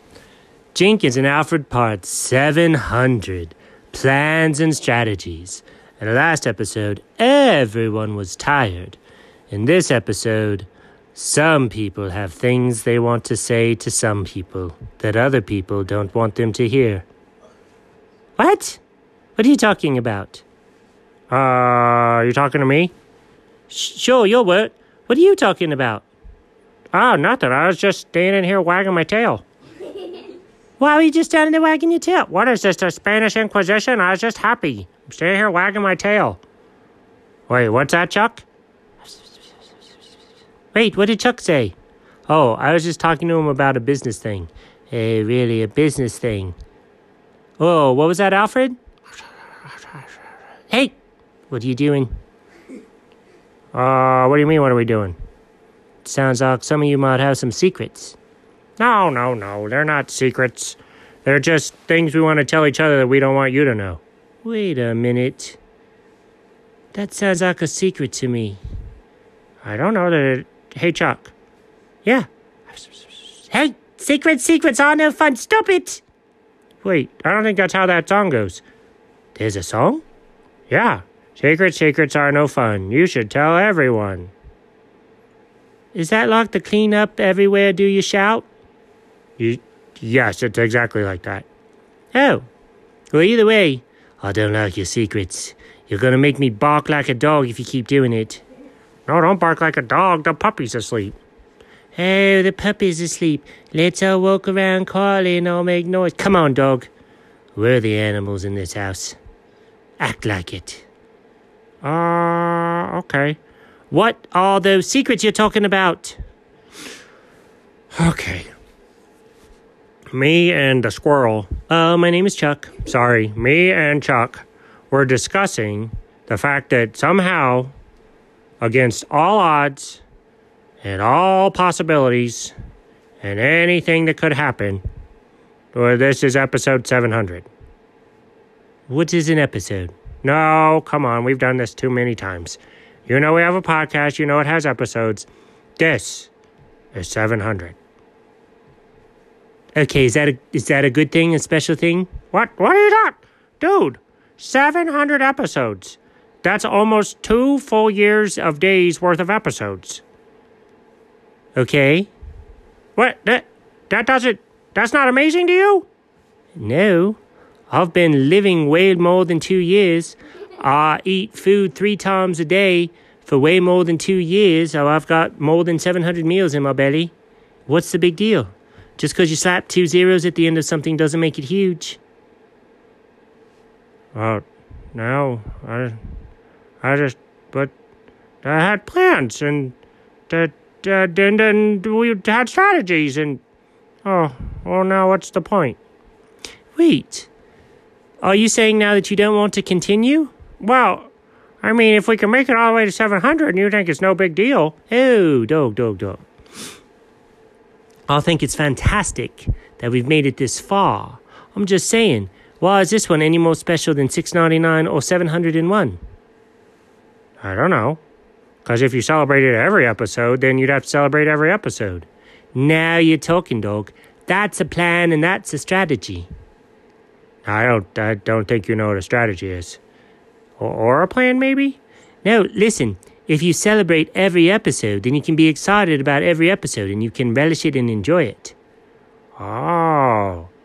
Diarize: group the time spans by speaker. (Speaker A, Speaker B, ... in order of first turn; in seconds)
Speaker A: 0.7-9.0, 9.5-17.0, 18.4-18.8, 19.4-20.4, 21.3-22.9, 23.7-26.1, 26.9-29.4, 30.8-36.4, 37.5-38.4, 40.7-41.7, 42.3-46.5, 47.6-48.8, 50.7-51.0, 51.5-52.1, 53.7-55.1, 56.0-58.1, 58.8-65.6, 66.9-68.6, 69.6-71.3, 72.0-72.9, 73.4-76.0, 76.8-78.6, 79.3-80.0, 80.7-84.3, 85.9-88.5, 89.4-91.5, 92.1-92.4, 93.1-98.4, 99.1-101.2, 101.9-106.9, 107.5-109.2, 110.0-110.8, 111.8-113.4, 113.9-116.2, 117.9-118.5, 120.1-127.7, 128.6-130.0, 130.8-132.5, 133.2-134.8, 135.7-137.5, 138.9-145.3, 145.8-146.3, 146.9-147.8, 149.7-160.0, 161.6-162.1, 162.9-165.8, 166.6-167.2, 167.7-177.1, 177.7-182.0, 184.1-186.0, 186.8-187.7, 188.4-189.7, 190.3-193.4, 194.0-195.8, 196.8-197.3, 198.2-201.1, 201.6-206.2, 208.1-216.0, 217.4-218.0, 218.6-226.3, 227.4-229.8, 230.6-238.5, 239.4-240.5